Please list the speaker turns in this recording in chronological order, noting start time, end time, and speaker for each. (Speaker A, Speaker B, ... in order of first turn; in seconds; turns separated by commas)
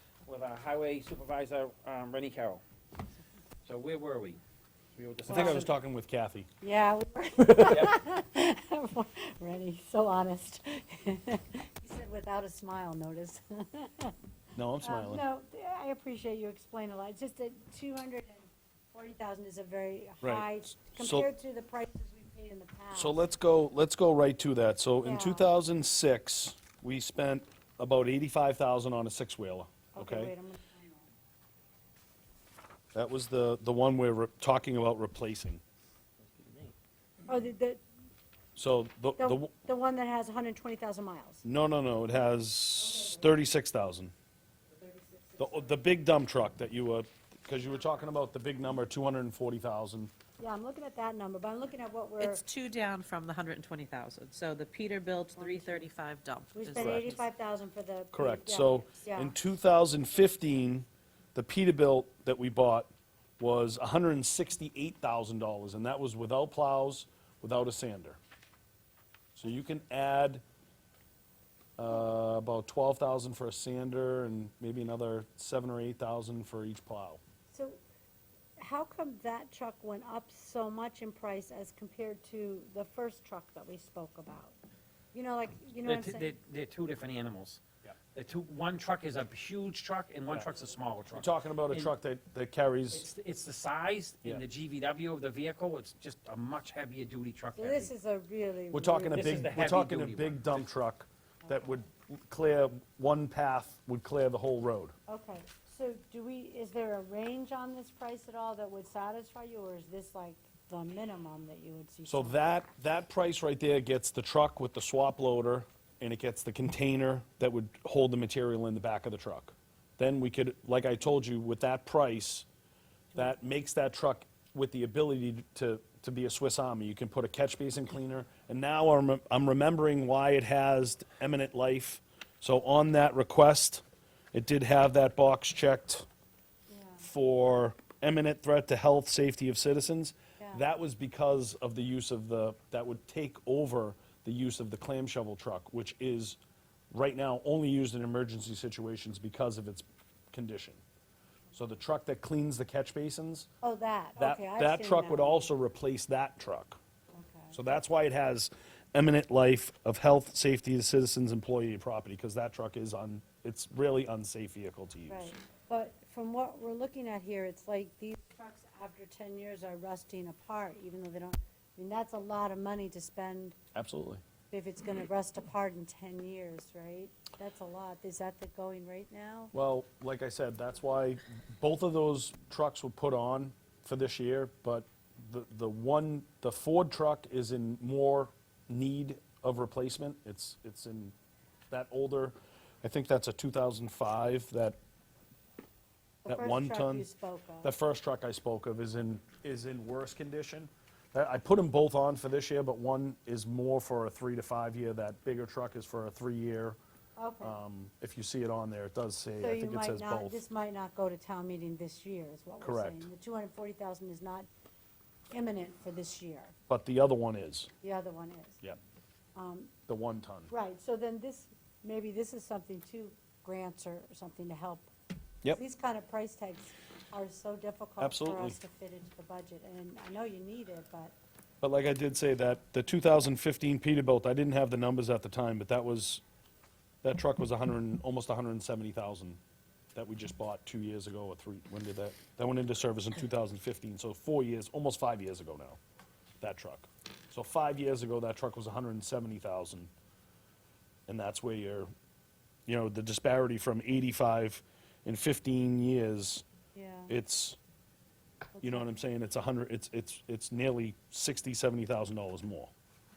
Speaker A: 0.3-2.6, Speaker A: 3.6-4.4, Speaker A: 5.0-5.7, Speaker B: 5.3-6.5, Speaker C: 5.3-5.7, Speaker C: 6.6-14.1, Speaker A: 7.7-8.0, Speaker B: 14.6-15.2, Speaker C: 14.8-23.2, Speaker B: 20.2-21.3, Speaker B: 22.9-30.3, Speaker C: 25.0-25.5, Speaker C: 29.9-31.1, Speaker B: 32.9-35.6, Speaker A: 36.4-36.7, Speaker C: 37.3-37.8, Speaker B: 38.6-39.5, Speaker C: 39.2-41.4, Speaker B: 41.4-44.1, Speaker B: 45.4-50.1, Speaker C: 50.4-52.4, Speaker D: 52.2-57.2, Speaker C: 55.4-55.8, Speaker C: 56.5-59.4, Speaker B: 56.8-57.1, Speaker B: 58.1-68.2, Speaker B: 69.4-70.4, Speaker B: 71.8-77.2, Speaker C: 77.5-77.8, Speaker C: 78.6-84.6, Speaker C: 85.1-86.3, Speaker A: 85.8-87.6, Speaker A: 88.2-91.9, Speaker B: 91.1-93.1, Speaker A: 92.9-97.9, Speaker C: 97.6-99.5, Speaker B: 98.7-104.9, Speaker A: 99.1-100.7, Speaker C: 101.5-101.8, Speaker C: 105.1-112.4, Speaker B: 112.1-122.5, Speaker B: 123.1-133.8, Speaker B: 134.3-136.1, Speaker C: 136.7-137.1, Speaker B: 137.0-146.4, Speaker C: 140.4-140.7, Speaker B: 146.9-150.8, Speaker B: 151.5-153.5, Speaker C: 153.6-155.5, Speaker B: 154.2-156.8, Speaker C: 157.1-157.6, Speaker B: 157.5-165.3, Speaker C: 165.1-173.6, Speaker B: 173.8-174.2, Speaker C: 174.5-179.5, Speaker B: 179.5-191.1, Speaker B: 191.7-194.8, Speaker C: 196.2-197.7, Speaker B: 196.3-197.1, Speaker B: 197.6-206.8, Speaker C: 207.2-207.6, Speaker B: 207.4-210.4, Speaker C: 209.4-214.5, Speaker B: 212.6-213.1, Speaker C: 215.3-216.6, Speaker B: 216.7-217.7, Speaker C: 217.8-218.6, Speaker C: 219.3-219.7, Speaker B: 219.9-220.5, Speaker C: 220.5-224.9, Speaker C: 225.5-231.2, Speaker B: 228.0-228.6, Speaker B: 231.6-236.2, Speaker B: 237.0-239.4, Speaker B: 239.9-245.8, Speaker B: 246.4-249.9, Speaker B: 251.1-251.9, Speaker B: 252.7-256.4, Speaker C: 256.7-257.1, Speaker B: 257.1-257.6, Speaker C: 258.6-258.9, Speaker B: 258.6-262.7